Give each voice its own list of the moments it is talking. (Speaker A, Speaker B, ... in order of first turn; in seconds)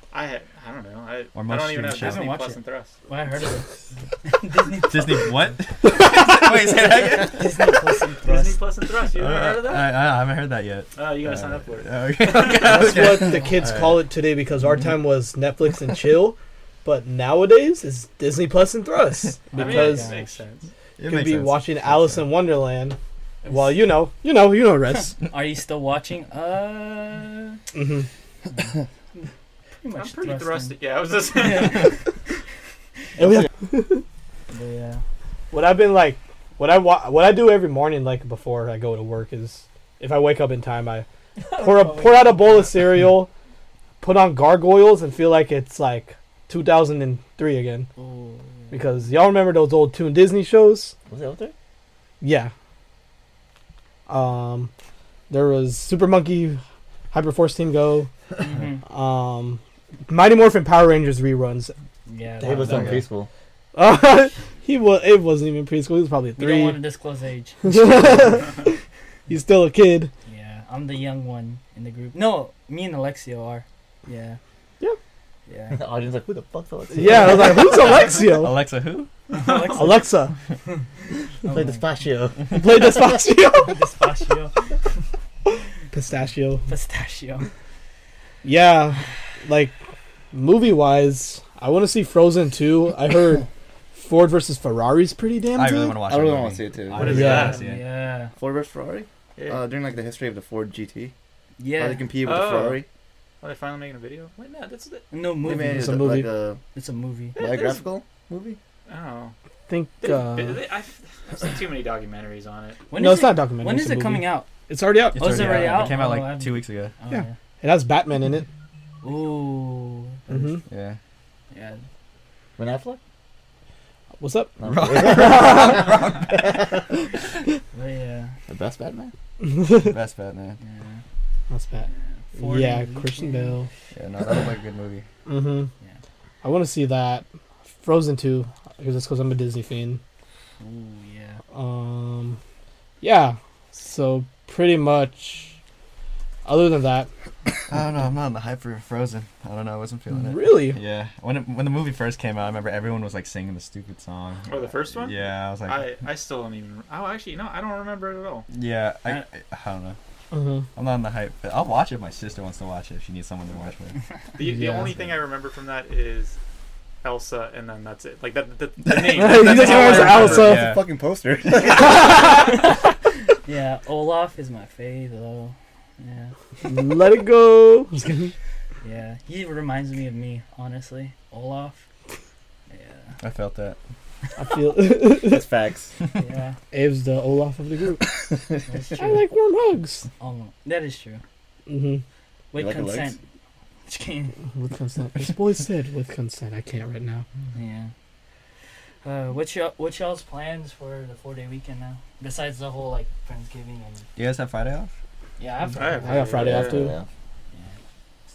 Speaker A: 0.1-2.9, 8.2-10.0, 10.9-12.9, 19.5-20.7, 29.9-32.0, 97.0-97.5, 99.4-99.6, 102.2-102.8, 103.4-105.1, 107.3-107.9, 108.9-109.3, 110.0-112.8, 154.5-158.5, 164.3-166.4, 167.0-170.6, 205.8-206.9
Speaker B: 1.4-2.3, 4.9-7.6, 9.1-14.1, 14.6-15.0, 21.0-22.2, 78.2-79.1, 95.5-97.8, 115.1-116.9, 120.7-121.0, 124.7-126.5, 129.8-130.6, 133.9-135.1, 147.7-155.9, 158.5-160.0, 160.8-164.0, 168.9-170.8, 183.2-183.8, 204.2-204.9
Speaker C: 1.8-5.5, 7.2-8.6, 19.5-20.4, 23.4-23.8, 24.9-27.6, 29.8-30.8, 31.3-32.0, 34.5-35.0, 41.4-42.7, 48.0-48.8, 58.4-58.8, 62.1-63.0, 66.4-68.4, 70.3-74.4, 75.5-75.8, 79.3-80.0, 81.4-82.0, 83.5-84.8, 86.7-87.5, 97.0-98.3, 101.6-102.1, 105.1-106.1, 106.7-107.4, 112.9-114.5, 115.1-117.3, 119.0-120.2, 121.5-121.8, 127.7-128.3, 130.6-131.0, 131.9-133.6, 140.6-141.4, 173.4-176.3, 178.8-181.8, 182.7-183.2, 186.2-186.6, 188.7-189.2, 190.2-191.2, 192.5-193.2, 193.9-194.3, 197.5-197.9, 199.0-204.1, 205.4-206.4, 207.5-207.8
Speaker D: 12.6-20.2, 21.1-25.1, 27.7-28.1, 33.2-34.0, 35.5-43.3, 44.0-47.9, 48.7-50.9, 52.2-52.5, 54.1-54.7, 55.3-56.6, 57.1-58.1, 58.9-61.7, 62.4-63.0, 63.8-66.8, 67.6-70.1, 76.9-78.6, 79.7-80.3, 82.5-83.8, 85.9-86.7, 88.4-89.8, 90.3-96.1, 97.1-97.6, 105.5-106.3, 109.7-110.6, 112.9-115.9, 117.1-118.5, 120.3-120.6, 124.2-125.9, 129.4-130.0, 131.5-133.7, 135.3-135.7, 136.4-137.2, 137.8-140.0, 141.5-142.4, 143.0-145.6, 146.4-147.1, 150.1-150.8, 160.3-160.7, 164.4-164.9, 169.0-170.8, 176.6-178.3, 184.4-185.5, 186.7-188.2, 189.0-190.1, 191.7-192.0, 194.6-197.2, 206.0-206.9
Speaker E: 51.1-51.5, 62.4-63.3, 75.7-77.8, 81.5-82.9, 96.0-97.5, 98.3-101.1, 101.8-102.9, 105.4-106.6, 107.4-108.6, 120.3-120.5, 122.6-123.0, 124.6-126.5, 128.5-129.1, 169.6-172.6, 185.1-185.9, 192.5-193.2, 206.3-207.1